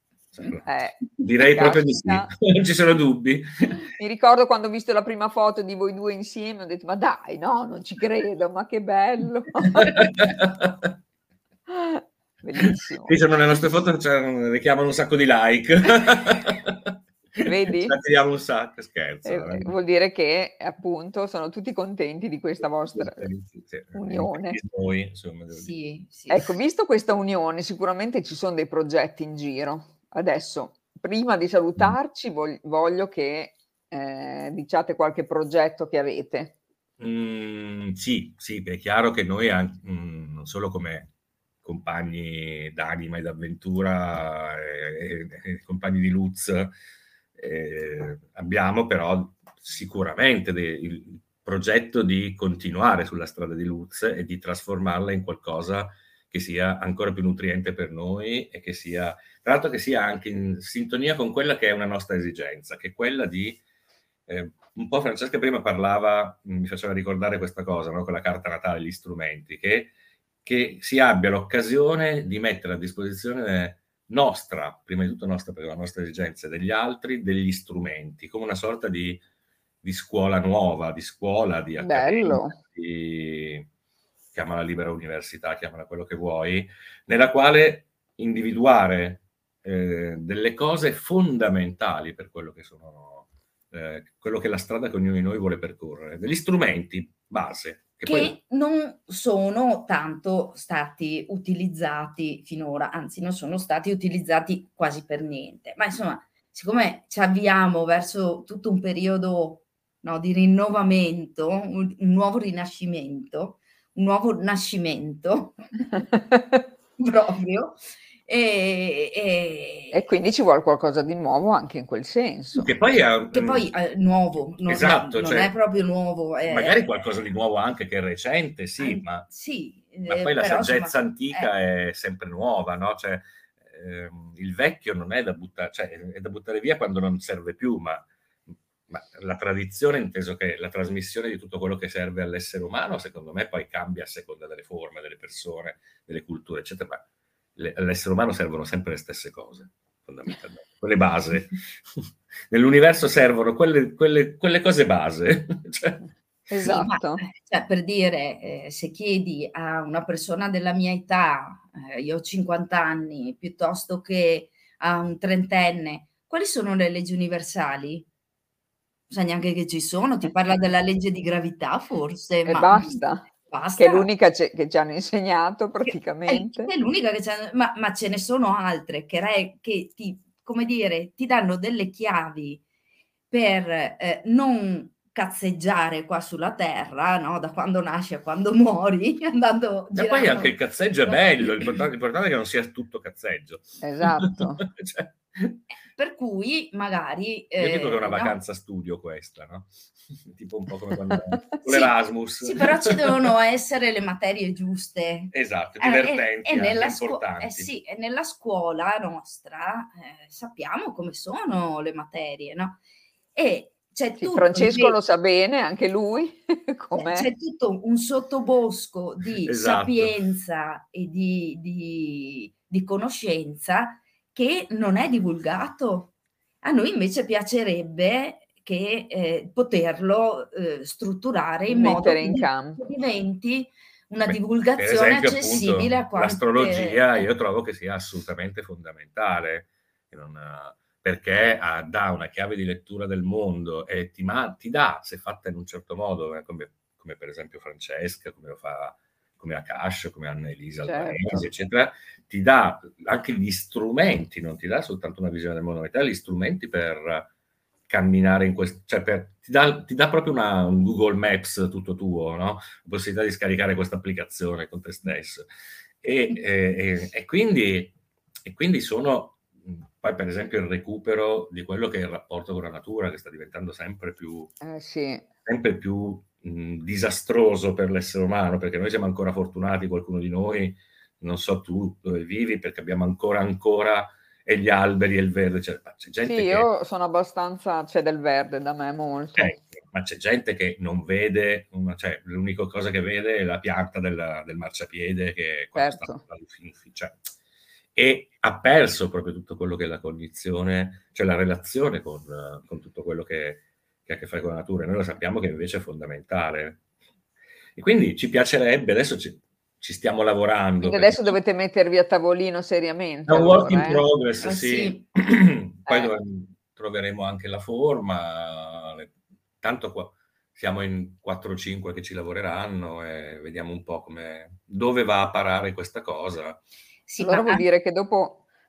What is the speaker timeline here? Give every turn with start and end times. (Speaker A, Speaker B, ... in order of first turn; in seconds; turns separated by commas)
Speaker A: 0.3-0.6, Speaker B: 0.6-2.3, Speaker A: 1.2-3.8, Speaker B: 4.0-9.9, Speaker A: 9.7-10.9, Speaker B: 11.7-13.2, Speaker A: 13.0-19.7, Speaker B: 17.4-18.0, Speaker B: 19.2-23.3, Speaker A: 22.9-25.7, Speaker B: 23.9-24.6, Speaker C: 25.5-26.5, Speaker B: 26.3-36.5, Speaker A: 37.0-41.1, Speaker A: 41.6-46.7, Speaker A: 47.4-63.6, Speaker A: 64.3-69.9, Speaker A: 70.4-79.2, Speaker A: 79.8-83.7, Speaker B: 81.8-82.6, Speaker A: 84.3-98.3, Speaker C: 98.0-115.6, Speaker B: 116.1-116.6, Speaker C: 117.0-120.0, Speaker B: 119.9-122.7, Speaker A: 122.5-123.7, Speaker C: 123.3-126.8, Speaker A: 124.7-125.5, Speaker A: 126.5-129.3, Speaker C: 128.8-131.5, Speaker A: 130.1-138.1, Speaker A: 138.9-147.0, Speaker A: 147.6-156.0, Speaker B: 156.5-157.2, Speaker C: 156.6-168.1, Speaker C: 169.1-174.1, Speaker B: 172.4-176.7, Speaker C: 175.8-182.6, Speaker C: 183.3-191.2, Speaker A: 189.9-195.6, Speaker B: 193.8-194.6, Speaker C: 195.9-198.4, Speaker A: 197.6-203.3, Speaker C: 201.6-212.8, Speaker A: 205.3-207.7, Speaker C: 213.3-214.9, Speaker B: 214.2-217.3, Speaker C: 216.9-237.3, Speaker A: 219.4-220.1, Speaker B: 231.7-232.8, Speaker A: 234.2-257.3, Speaker B: 250.8-251.5, Speaker A: 257.9-265.4, Speaker A: 266.0-267.9, Speaker A: 268.4-274.5, Speaker B: 274.6-275.2, Speaker A: 275.4-286.7, Speaker B: 286.2-289.5, Speaker A: 289.4-297.3, Speaker B: 295.7-296.2, Speaker A: 297.9-306.8, Speaker A: 307.8-311.4, Speaker B: 310.8-314.0, Speaker A: 313.2-326.6, Speaker C: 314.4-315.0, Speaker C: 327.1-327.6, Speaker B: 327.2-328.4